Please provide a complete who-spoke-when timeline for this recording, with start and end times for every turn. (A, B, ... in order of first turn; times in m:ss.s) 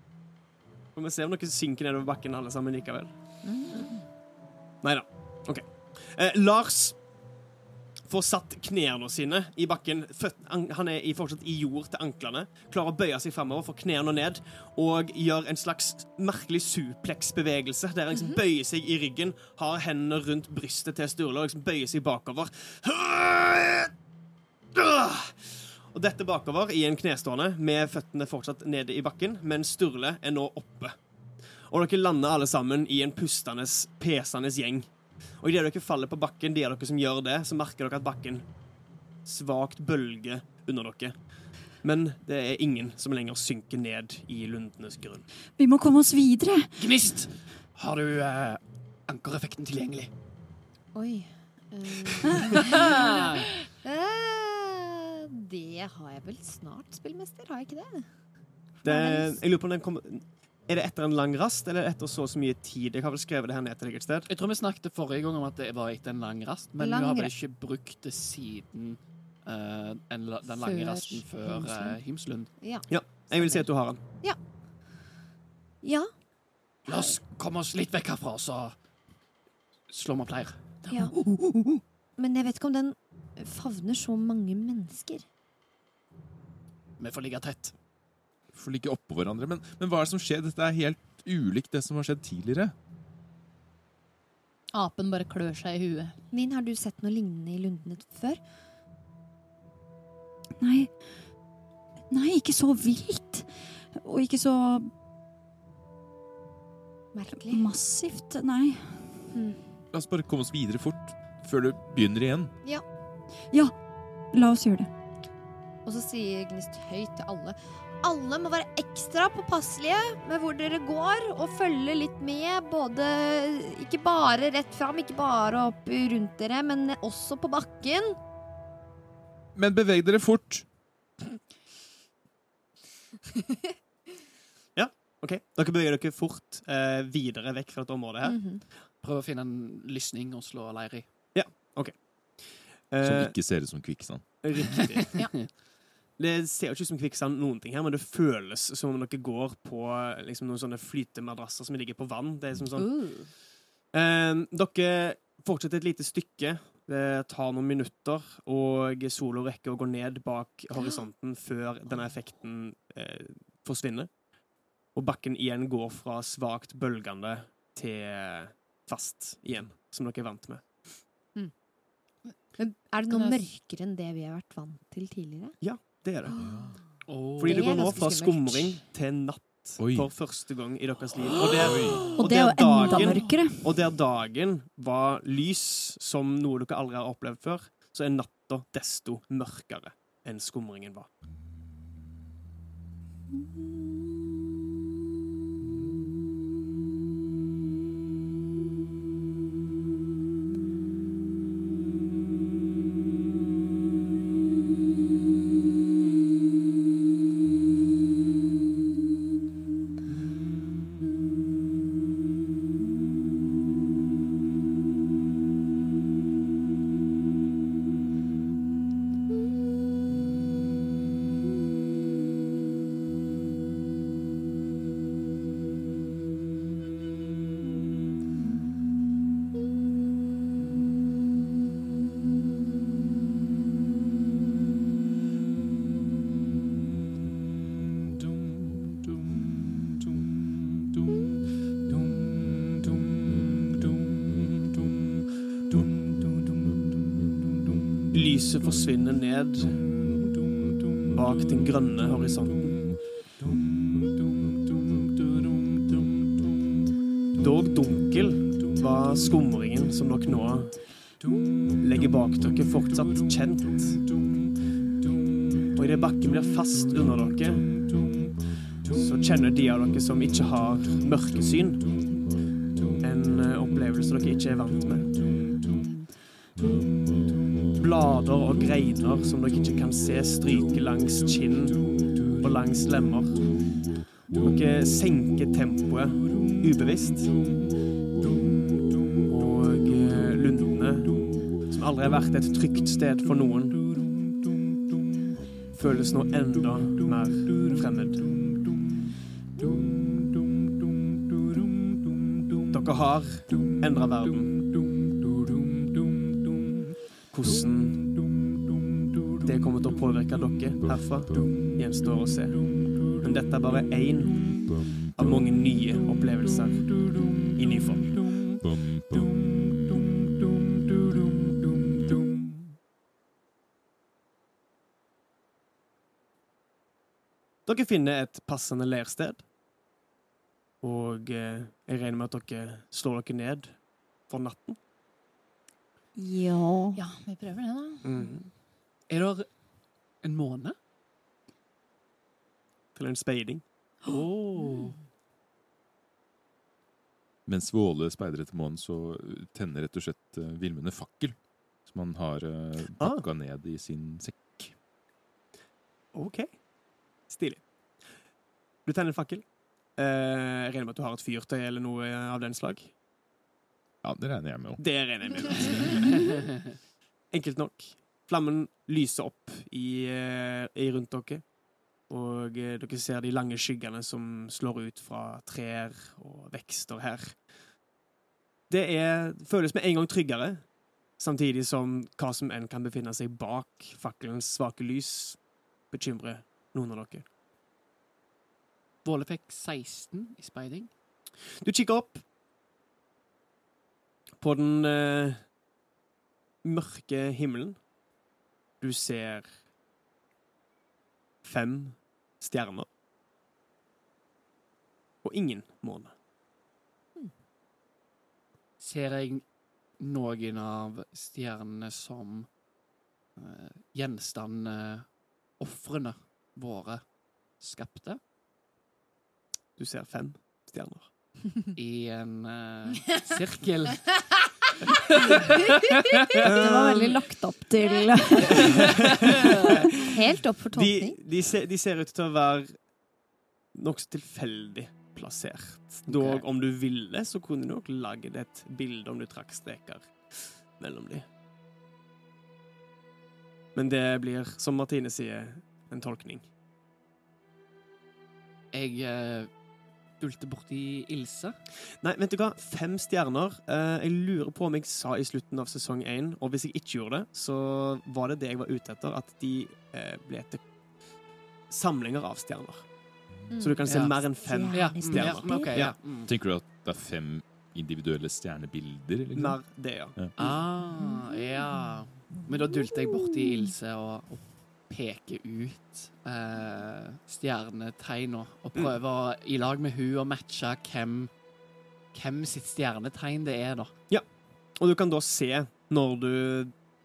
0:00.9-0:03.4 A
0:03.4-0:04.0 B
0:04.8-0:07.0 A
0:08.0-0:23.9 A
0:18.1-0:18.4 B
0:24.7-0:31.0 A
0:31.5-0:38.5 A
0:39.2-0:45.3 A
0:45.6-0:47.1 C
0:46.8-0:50.1 D
0:50.9-0:53.2 B
0:52.6-0:53.4 D
0:53.8-0:58.2 B
0:58.8-0:59.4 B
0:58.8-1:04.3 A
1:04.3-1:12.6 D
1:06.8-1:07.3 B
1:10.5-1:11.6 E
1:11.5-1:12.0 B
1:12.5-1:14.4 B
1:12.9-1:14.0 A
1:15.8-1:16.1 B
1:16.8-1:17.2 B
1:16.9-1:18.8 D
1:19.9-1:21.8 D
1:22.2-1:25.3 B
1:27.0-1:27.8 D
1:28.5-1:32.7 F
1:34.7-1:36.2 E
1:36.3-1:38.5 B
1:40.6-1:41.2 C
1:42.1-1:44.9 C
1:47.1-1:47.8 B
1:47.3-1:49.2 C
1:49.3-1:49.8 B
1:49.9-1:52.5 F
1:53.5-1:53.8 C
1:54.3-1:54.9 C
1:55.8-2:08.2 B
2:09.6-2:10.7 F
2:14.8-2:18.4 A
2:18.2-2:18.6 B
2:19.0-2:21.1 D
2:21.3-2:23.4 A
2:23.0-2:24.5 F
2:24.4-2:25.6 A
2:26.2-2:33.3 A
2:32.8-2:33.3 E
2:33.9-2:44.1 A
2:40.7-2:41.1 B
2:44.9-2:50.9 A
2:52.2-2:53.5 E
2:52.6-2:55.6 B
2:55.6-2:56.3 A
2:56.3-2:58.9 B
2:56.4-2:56.8 F
2:57.1-2:58.0 D
2:57.4-3:11.1 A
2:59.8-3:00.1 F
3:01.6-3:02.1 F
3:02.1-3:03.8 C
4:08.1-4:09.9 A
4:11.1-4:12.9 A
4:17.3-4:20.8 A
4:21.8-4:24.1 A
4:25.8-4:28.0 A
4:28.9-4:32.0 A
4:33.0-4:35.2 A
4:37.8-4:43.6 A
4:44.3-4:47.4 A
4:49.3-4:53.8 A
4:55.7-4:58.4 A
5:02.7-5:04.6 A
5:07.3-5:08.1 A
5:09.4-5:18.3 A
5:18.6-5:20.0 F
5:27.7-5:29.4 A
5:30.8-5:34.8 A
5:36.2-5:37.0 C
5:36.9-5:38.3 E
5:38.0-5:38.5 A
5:39.1-5:39.6 D
5:40.2-5:40.8 D
5:43.0-5:43.6 A
5:44.1-5:45.0 D
5:47.5-5:54.8 F
5:52.9-5:53.2 A
5:56.1-5:56.6 A
5:57.3-5:57.7 A
5:58.8-6:03.0 A
6:04.0-6:05.0 F
6:04.8-6:06.2 A
6:07.3-6:11.5 A
6:12.1-6:17.4 A
6:18.7-6:27.3 A
6:29.0-6:30.9 D
6:31.5-6:32.2 A
6:34.4-6:35.5 A
6:36.6-6:37.8 A
6:38.8-6:39.6 A
6:41.4-6:42.9 A
6:45.2-6:46.1 A
6:48.8-6:49.5 D
6:50.0-6:52.5 D
6:53.4-6:58.2 D
6:59.8-7:01.1 A
7:01.8-7:04.2 D
7:06.4-7:08.0 B
7:06.4-7:08.8 C
7:06.4-7:06.9 A
7:10.0-7:11.2 B
7:10.7-7:12.8 A
7:13.7-7:21.3 A
7:16.1-7:16.4 D
7:23.8-7:26.5 A
7:28.7-7:29.5 D
7:30.2-7:31.6 D
7:32.0-7:40.6 A
7:41.7-7:42.9 A
7:43.5-7:45.8 B
7:43.6-7:46.0 A
7:43.9-7:46.3 D
7:46.3-7:50.4 F
7:49.3-7:50.5 A
7:50.4-8:01.4 D
8:02.1-8:04.0 D
8:04.1-8:06.8 A